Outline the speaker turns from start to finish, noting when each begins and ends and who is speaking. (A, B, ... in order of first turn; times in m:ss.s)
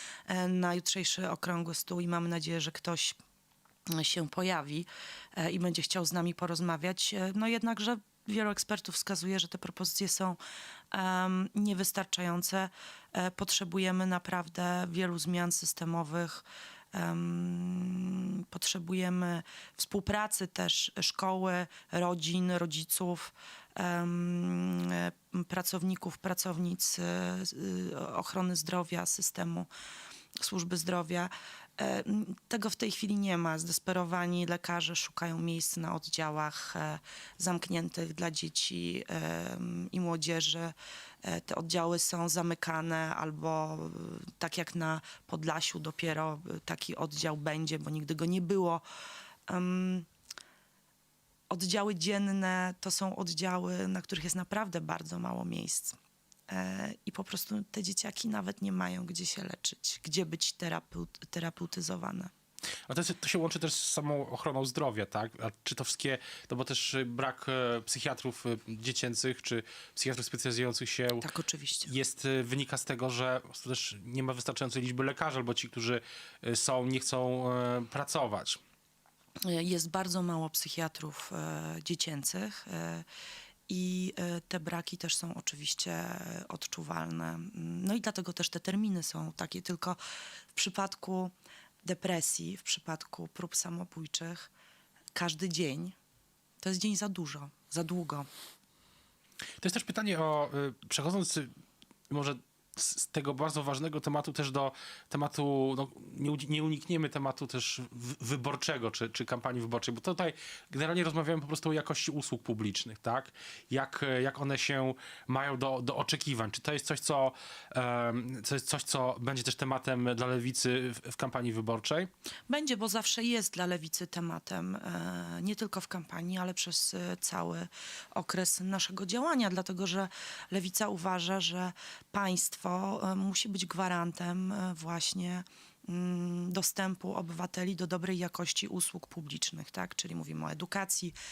0:00.3-0:03.2 A
0:03.9-0:10.4 A
0:10.9-0:29.7 A
0:30.4-0:48.8 A
0:49.5-0:50.1 A
0:51.5-0:56.0 A
0:56.5-1:02.3 A
1:02.9-1:11.3 B
1:11.2-1:11.9 A
1:11.9-1:18.6 B
1:19.4-1:23.1 A
1:23.7-1:30.0 A
1:30.6-1:31.3 A
1:31.8-1:34.5 A
1:35.2-1:36.0 A
1:36.6-1:38.3 A
1:39.6-1:41.5 B
1:42.1-2:02.1 B
2:02.5-2:21.2 A